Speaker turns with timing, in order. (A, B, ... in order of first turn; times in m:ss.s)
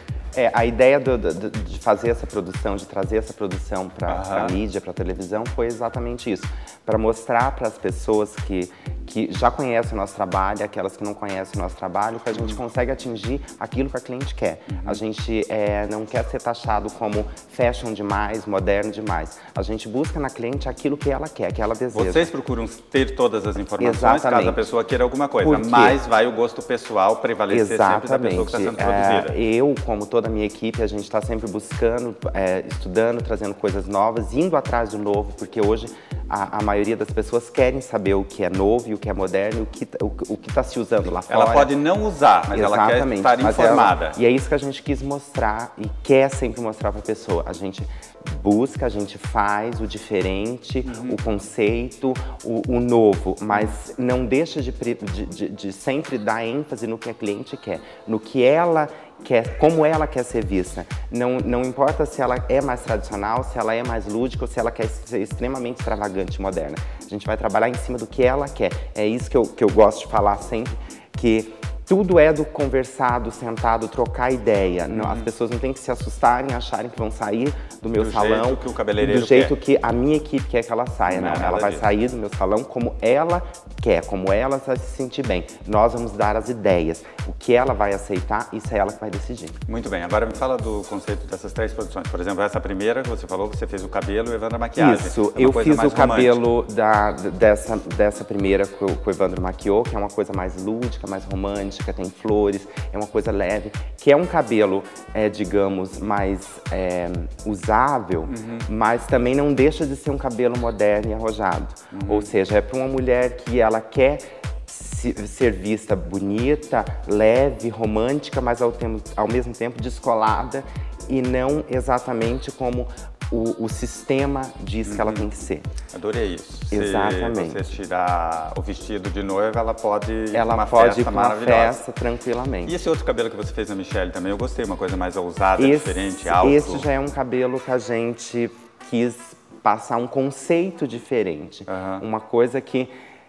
0:00.3-0:22.3 A
0:04.1-0:04.6 B
0:14.7-0:15.0 B
0:21.9-0:29.4 B
0:23.8-0:24.6 A
0:25.4-0:26.0 A
0:27.5-0:41.8 A
0:41.3-0:44.2 B
0:42.5-1:29.6 A
0:50.8-0:51.2 B
1:14.9-1:15.3 B
1:18.0-1:19.5 B
1:21.1-1:21.9 B
1:29.7-1:36.4 B
1:34.8-2:05.7 A
1:48.3-1:48.7 B
1:51.9-1:52.3 B
2:04.9-2:05.3 B
2:05.9-2:11.8 B
2:06.7-2:07.7 A
2:10.3-2:12.8 A
2:12.6-2:16.9 B
2:15.6-2:22.9 A
2:21.7-2:22.0 B